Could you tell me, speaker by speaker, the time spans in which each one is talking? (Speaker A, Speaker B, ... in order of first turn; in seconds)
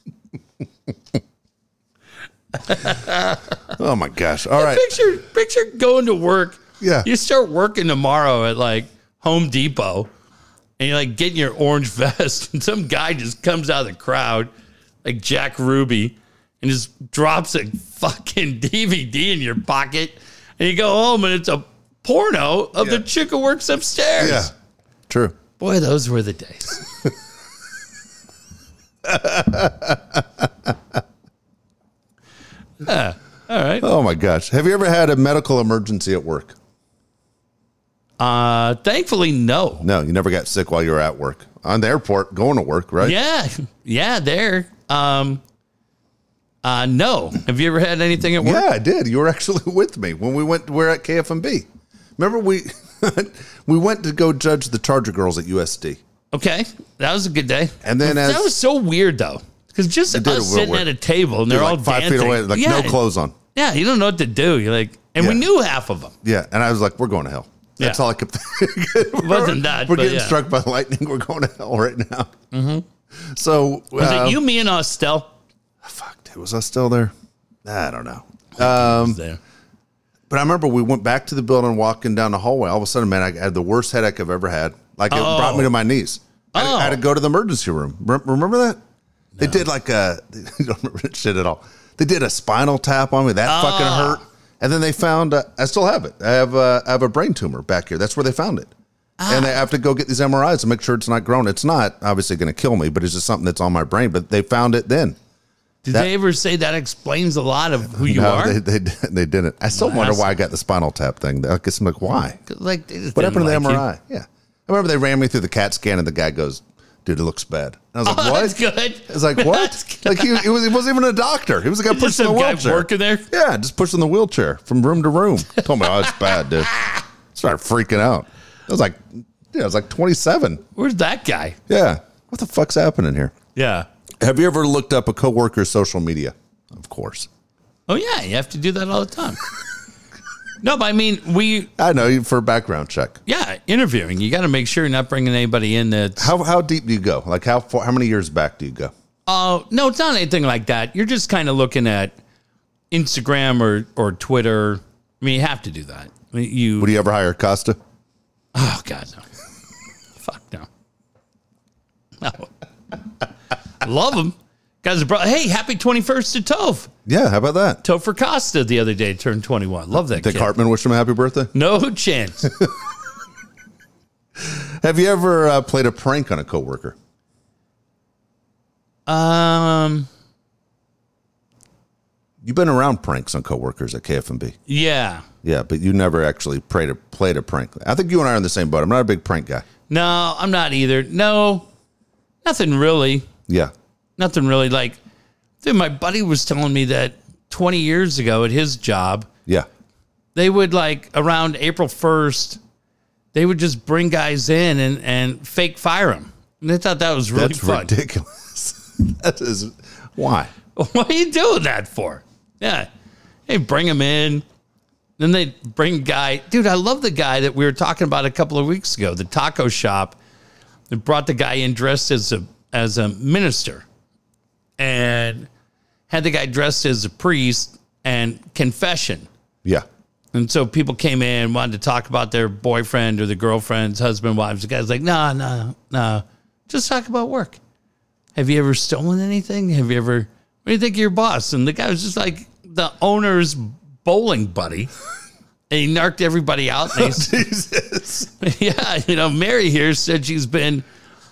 Speaker A: 2.6-3.5, 4.6-10.1, 10.8-14.5, 15.0-24.5, 25.6-26.8, 32.8-33.9, 38.2-39.9, 43.0-45.4, 46.6-48.7, 56.3-63.0, 63.5-66.1, 69.2-70.4, 72.5-72.8, 74.0-75.3, 78.6-79.4, 85.1-85.7, 86.5-87.0, 89.4-89.6, 93.5-94.2, 99.2-99.6, 105.8-108.6, 109.8-110.3, 112.5-113.8, 118.0-120.5, 121.9-123.3, 125.8-127.0, 130.8-131.6, 133.6-133.9, 137.9-139.4, 140.6-141.7, 143.3-146.3, 149.3-152.2, 152.9-156.9, 158.6-159.2, 160.2-160.7, 162.2-162.5, 163.8-166.9, 167.8-170.5, 171.5-172.5, 179.1-180.1, 184.7-185.2, 189.9-191.7, 192.4-193.3, 194.2-195.0, 195.6-199.3, 200.3-202.6, 203.3-207.9, 210.8-212.9, 213.5-214.4, 215.2-220.2, 220.9-223.9, 224.8-225.5, 226.1-229.3, 230.3-237.6, 238.3-244.9, 245.7-247.5, 248.4-250.8
Speaker B: 3.7-5.0, 6.8-7.1, 24.2-24.5, 25.1-25.4, 29.0-30.7, 33.8-36.6, 39.8-43.2, 48.4-51.7, 52.2-56.0, 57.8-58.5, 60.1-60.9, 61.5-63.4, 66.2-72.3, 73.2-74.4, 75.8-77.1, 77.7-79.2, 80.3-88.8, 89.4-98.7, 99.3-105.2, 107.9-112.4, 113.2-126.7, 127.3-130.6, 131.7-133.3, 134.2-137.3, 141.8-143.2, 146.2-148.9, 156.8-157.8, 167.1-167.8, 170.1-171.5, 172.4-172.7, 174.4-177.0, 182.4-184.6, 185.4-189.7, 207.3-210.5, 246.9-248.3